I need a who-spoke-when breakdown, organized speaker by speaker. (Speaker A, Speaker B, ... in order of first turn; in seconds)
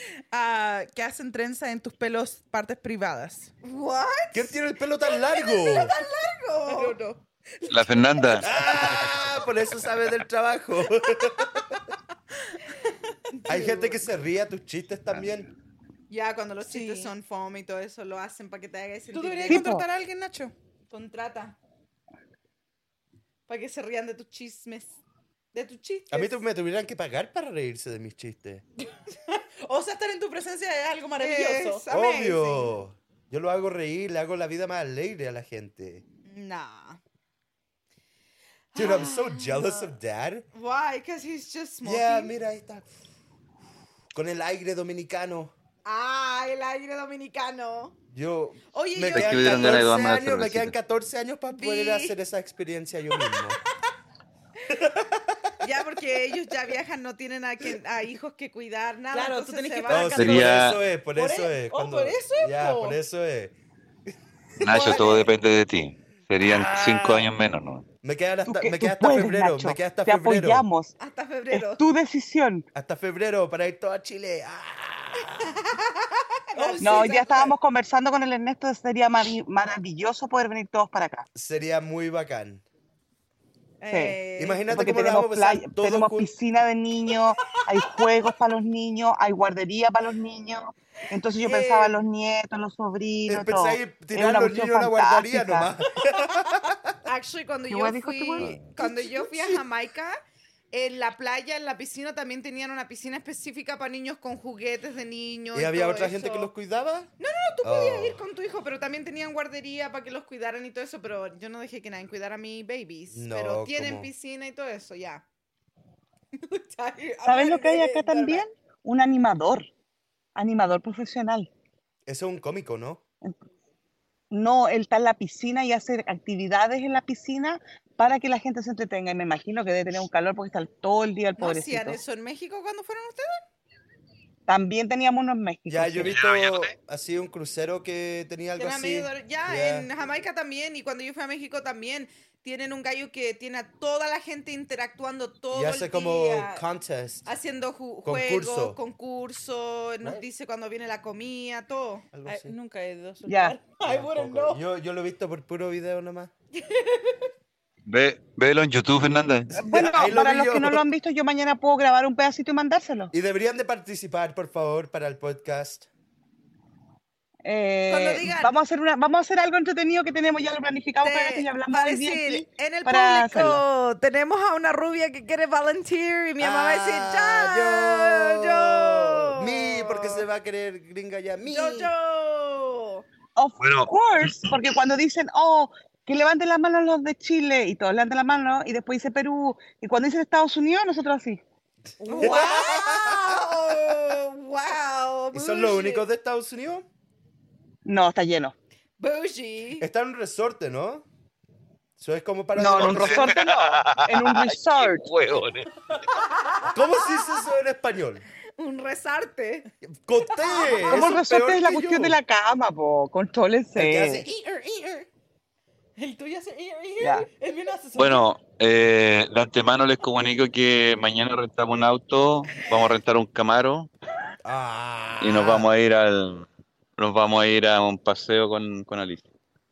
Speaker A: 0.3-3.5, 6.7-8.6, 16.6-17.1, 19.1-20.5, 29.6-31.8, 59.1-63.0, 76.5-77.3, 152.2-154.6, 192.1-192.4, 216.0-218.3
Speaker B: 3.6-6.9, 13.4-13.9, 16.1-19.7, 20.9-21.6, 23.5-25.0, 25.5-26.4, 31.2-32.7, 36.3-37.0, 38.7-39.9, 40.5-42.3, 45.8-47.9, 48.7-50.0, 51.5-52.1, 55.6-60.4, 64.7-65.2, 71.0-71.8, 75.5-77.3, 83.8-84.7, 91.4-92.0, 97.0-100.2, 100.7-106.5, 107.2-115.2, 116.4-118.4, 131.4-133.4, 138.6-146.6, 147.2-152.1, 167.9-168.6, 171.0-180.2, 181.4-183.1, 192.0-196.1, 199.0-199.8, 206.2-207.3, 208.6-209.7, 210.3-211.1, 214.5-214.8
Speaker C: 4.3-5.9, 8.4-11.7, 13.5-15.5, 26.1-28.6, 31.9-36.0, 38.7-40.5, 41.8-42.8, 44.1-45.5, 48.1-53.6, 54.7-55.4, 59.9-63.5, 64.7-65.0, 66.4-67.3, 68.0-70.7, 72.7-75.5, 76.7-77.5, 81.3-82.6, 84.4-86.3, 93.3-96.9, 105.5-107.1, 107.6-108.2, 113.1-114.1, 122.0-123.0, 135.7-139.9, 145.5-147.2, 148.0-148.8, 152.1-152.5, 153.8-156.3, 159.6-160.8, 163.1-165.9, 176.4-181.9, 192.0-193.4, 195.3-196.9, 199.8-201.1, 202.0-203.3, 206.7-208.2, 210.0-212.2, 213.7-214.3, 224.4-225.7
Speaker D: 7.7-9.3, 49.1-50.7, 60.2-60.8, 64.6-67.8, 98.4-98.7, 136.0-136.7, 157.8-159.5, 183.6-184.5, 202.7-205.8, 217.9-223.9, 225.2-229.3
Speaker E: 19.5-19.8, 68.5-70.9, 71.5-72.7, 76.8-81.2, 83.9-84.2, 84.7-95.7, 97.7-98.6, 117.2-119.7, 120.3-121.5, 124.3-132.0, 134.5-136.1, 153.3-153.6, 159.5-163.1, 167.4-173.6, 183.3-191.4, 197.8-198.5, 202.6-205.1, 210.9-214.2, 217.0-217.3